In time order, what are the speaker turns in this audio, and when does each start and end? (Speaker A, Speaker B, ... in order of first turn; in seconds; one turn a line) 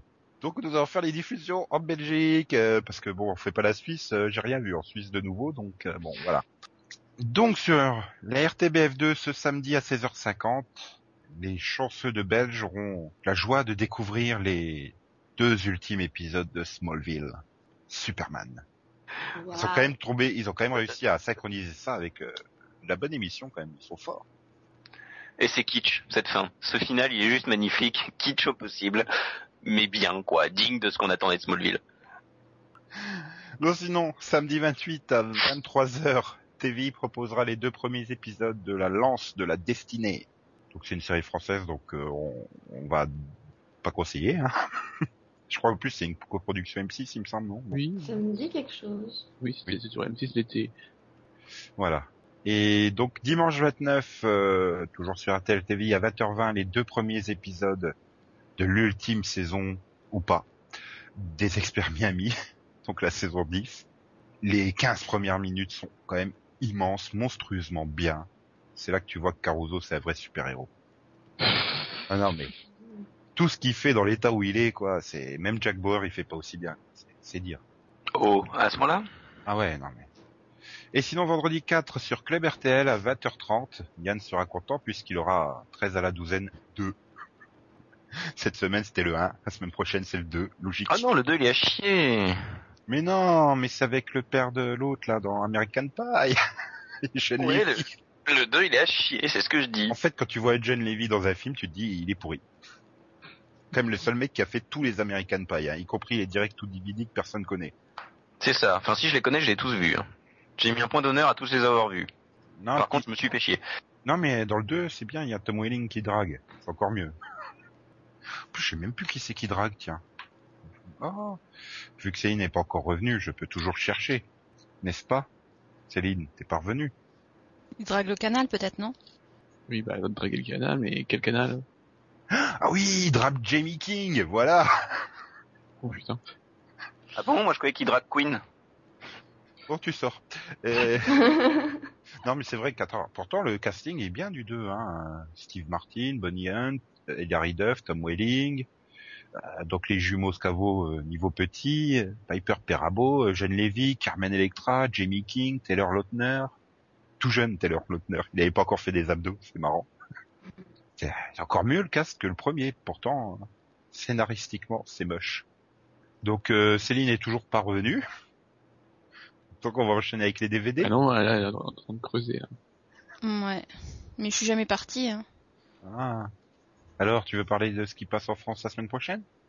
Speaker A: 0.4-6.5
Speaker A: 7.2-18.6
Speaker B: 19.4-19.9
Speaker A: 19.5-24.2
Speaker C: 25.4-29.1
Speaker C: 29.6-31.8
Speaker A: 33.0-43.3
Speaker A: 43.8-44.5
Speaker A: 45.5-47.8
Speaker D: 47.7-48.1
Speaker B: 48.0-49.3
Speaker D: 49.4-50.7
Speaker A: 51.8-58.0
Speaker A: 58.6-60.5
Speaker A: 61.1-63.9
Speaker A: 64.4-70.7
Speaker A: 72.1-72.5
Speaker A: 73.4-77.6
Speaker C: 78.1-79.0
Speaker A: 79.5-80.1
Speaker A: 80.9-87.0
Speaker A: 88.2-91.1
Speaker C: 90.9-92.4
Speaker A: 92.9-96.4
Speaker A: 97.0-97.9
Speaker C: 97.4-99.9
Speaker A: 99.9-102.4
Speaker A: 103.7-107.7
Speaker C: 108.4-110.1
Speaker C: 110.6-112.1
Speaker A: 112.6-113.0
Speaker C: 112.7-113.6
Speaker A: 114.0-117.2
Speaker A: 118.5-120.0
Speaker A: 121.0-121.4
Speaker A: 122.0-124.3
Speaker A: 124.8-125.3
Speaker A: 125.9-126.9
Speaker E: 127.8-128.9
Speaker D: 129.7-131.6
Speaker A: 132.3-135.0
Speaker D: 135.8-136.2
Speaker C: 137.2-138.4
Speaker A: 139.7-141.2
Speaker B: 141.2-141.7
Speaker A: 142.2-148.7
Speaker A: 149.4-156.6
Speaker A: 157.2-159.9
Speaker A: 161.0-165.4
Speaker A: 166.2-168.0
Speaker A: 169.5-170.9
Speaker D: 170.8-172.5
Speaker E: 173.2-173.7
Speaker E: 174.2-175.2
Speaker A: 175.8-176.3
Speaker A: 177.0-179.2